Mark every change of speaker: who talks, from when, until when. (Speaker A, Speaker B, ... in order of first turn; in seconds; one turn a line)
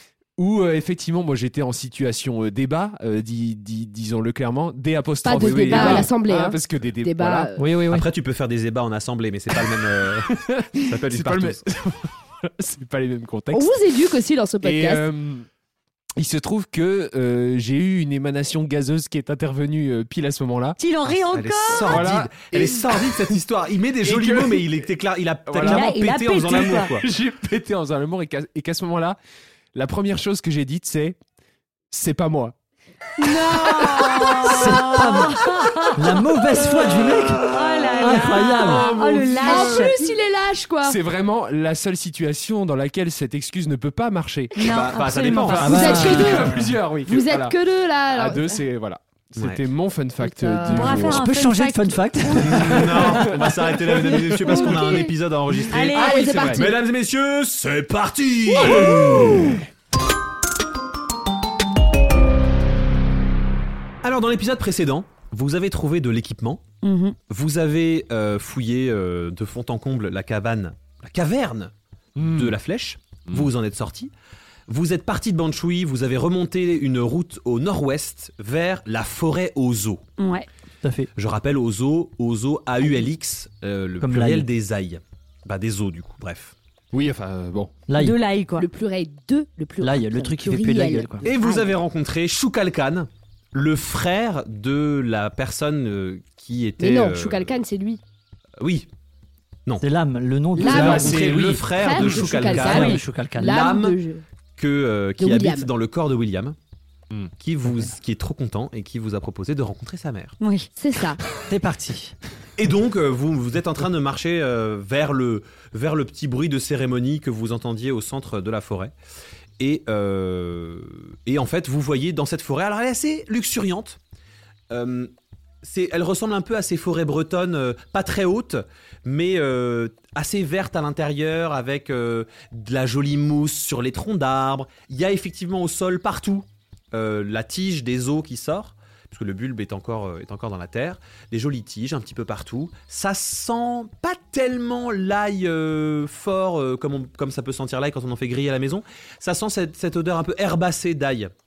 Speaker A: 0.4-7.5
Speaker B: 5.2-7.6
Speaker C: 5.3-6.1
Speaker D: 7.6-8.1
Speaker C: 7.9-11.7
Speaker A: 10.2-13.8
Speaker B: 13.5-15.1
Speaker A: 14.6-15.5
Speaker A: 16.2-20.8
Speaker E: 20.8-22.0
Speaker C: 21.3-27.1
Speaker A: 21.9-23.3
Speaker A: 24.0-24.8
Speaker A: 25.5-25.9
Speaker E: 25.6-26.9
Speaker A: 26.5-29.2
Speaker A: 29.7-31.2
Speaker A: 31.9-32.5
Speaker E: 33.2-36.1
Speaker A: 33.2-34.7
Speaker D: 34.4-35.4
Speaker D: 35.9-38.9
Speaker A: 36.9-40.0
Speaker E: 37.4-40.0
Speaker B: 39.4-41.0
Speaker A: 40.8-44.5
Speaker E: 44.5-46.1
Speaker C: 44.6-45.8
Speaker A: 45.3-51.2
Speaker D: 45.6-46.5
Speaker B: 45.6-48.6
Speaker C: 49.4-49.6
Speaker B: 50.2-51.2
Speaker E: 50.7-52.6
Speaker D: 51.1-53.3
Speaker C: 52.4-59.6
Speaker A: 52.6-54.8
Speaker B: 53.9-55.2
Speaker E: 55.7-56.6
Speaker A: 55.7-56.6
Speaker B: 55.9-56.8
Speaker B: 58.5-59.6
Speaker C: 64.0-66.6
Speaker E: 66.8-67.2
Speaker C: 67.3-74.1
Speaker A: 72.2-72.5
Speaker C: 74.7-80.0
Speaker E: 80.2-80.5
Speaker D: 80.8-81.1
Speaker C: 81.2-86.5
Speaker D: 84.0-84.5
Speaker A: 86.9-87.8
Speaker D: 87.9-88.2
Speaker E: 88.0-88.7
Speaker B: 88.6-91.8
Speaker D: 89.8-91.3
Speaker C: 91.2-97.6
Speaker B: 96.8-98.0
Speaker C: 98.6-98.9
Speaker D: 99.8-101.2
Speaker B: 100.6-104.2
Speaker C: 100.6-104.0
Speaker A: 100.6-102.2
Speaker D: 102.2-103.6
Speaker E: 102.7-103.0
Speaker C: 104.6-106.6
Speaker B: 105.2-105.7
Speaker C: 107.4-110.4
Speaker E: 110.4-110.7
Speaker B: 110.8-111.2
Speaker D: 111.4-112.2
Speaker C: 112.6-118.9
Speaker C: 119.6-124.0
Speaker C: 124.7-151.3